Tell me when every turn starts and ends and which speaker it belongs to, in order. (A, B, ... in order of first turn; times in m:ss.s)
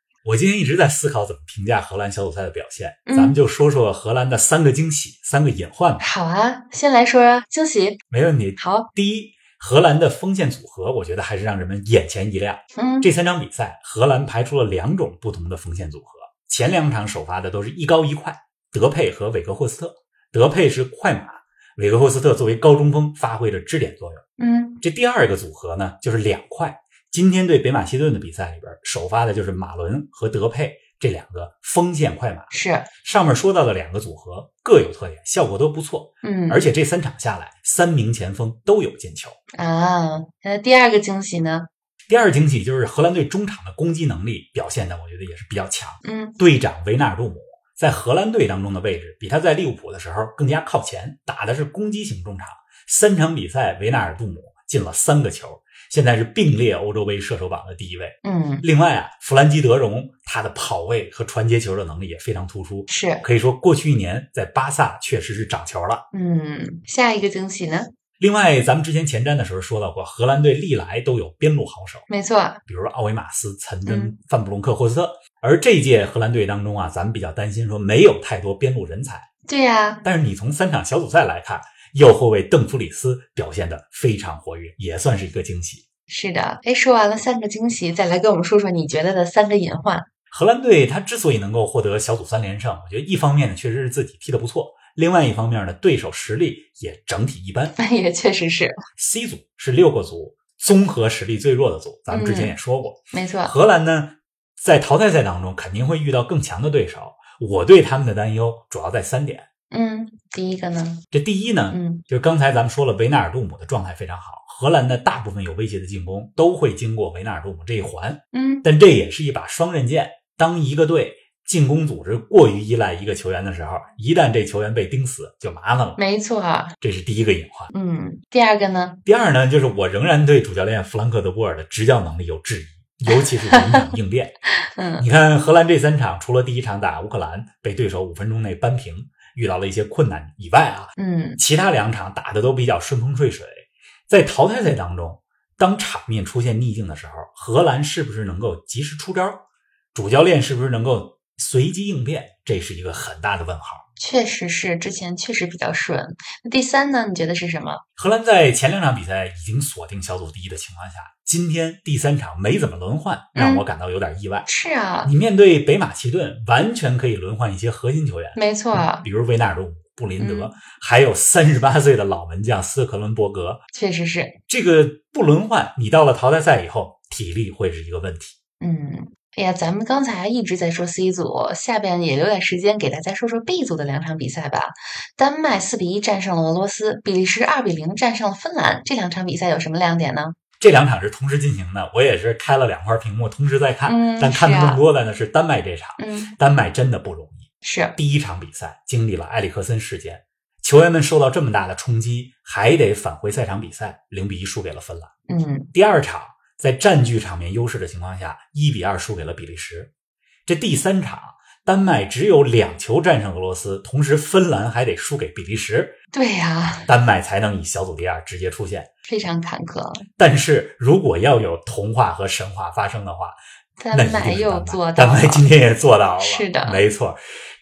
0:00.2-0:06.0 A
0:03.1-0:03.4 B
0:06.0-0:08.0 B
0:08.1-0:24.2 A
0:08.6-0:08.9 B
0:12.8-0:13.1 B
0:24.4-0:24.8 B
0:24.8-0:32.5 A
0:32.5-0:32.9 B
0:33.0-0:39.4 A
0:36.2-0:36.6 B
0:39.5-0:41.7 B
0:42.1-1:06.0 A
0:46.0-0:46.4 B
0:58.2-0:58.6 B
1:02.9-1:03.2 B
1:06.1-1:07.9 B
1:08.2-1:12.1 A
1:12.1-1:12.6 B
1:12.7-1:19.3 A
1:13.8-1:14.1 B
1:19.5-1:20.0 B
1:20.0-1:25.8 A
1:26.1-1:30.1 B
1:30.3-1:37.8 A
1:37.8-1:38.8 B
1:39.0-1:49.5 A
1:42.1-1:42.6 B
1:43.1-1:43.6 B
1:49.7-1:51.0 B
1:51.1-2:06.0 A
1:51.7-1:52.0 B
1:58.3-1:58.6 B
2:06.0-2:06.7 B
2:06.8-2:07.7 A
2:07.7-2:09.0 B
2:09.0-2:14.4 A
2:13.5-2:13.8 B
2:14.6-2:15.0 B
2:15.0-2:29.4 A
2:21.0-2:21.4 B
2:29.9-2:33.8 A
2:34.0-2:37.8 B
2:38.0-2:44.5 A
2:43.3-2:43.6 B
2:44.4-2:45.1 B
2:45.0-2:53.6 A
2:48.3-2:49.0 B
2:50.2-2:50.5 B
2:53.7-2:54.4 B
2:54.5-2:58.4 A
2:58.6-3:10.4 B
3:10.6-3:25.1 A
3:13.8-3:14.8 B
3:16.0-3:16.3 B
3:17.6-3:18.0 B
3:25.3-3:25.7 B
3:25.7-3:29.9 A
3:30.4-3:36.0 A
3:36.1-3:36.9 B
3:36.9-3:38.9 A
3:39.0-3:40.0 B
3:40.2-3:43.4 A
3:43.8-3:45.4 B
3:43.9-3:47.2 A
3:46.2-3:46.8 B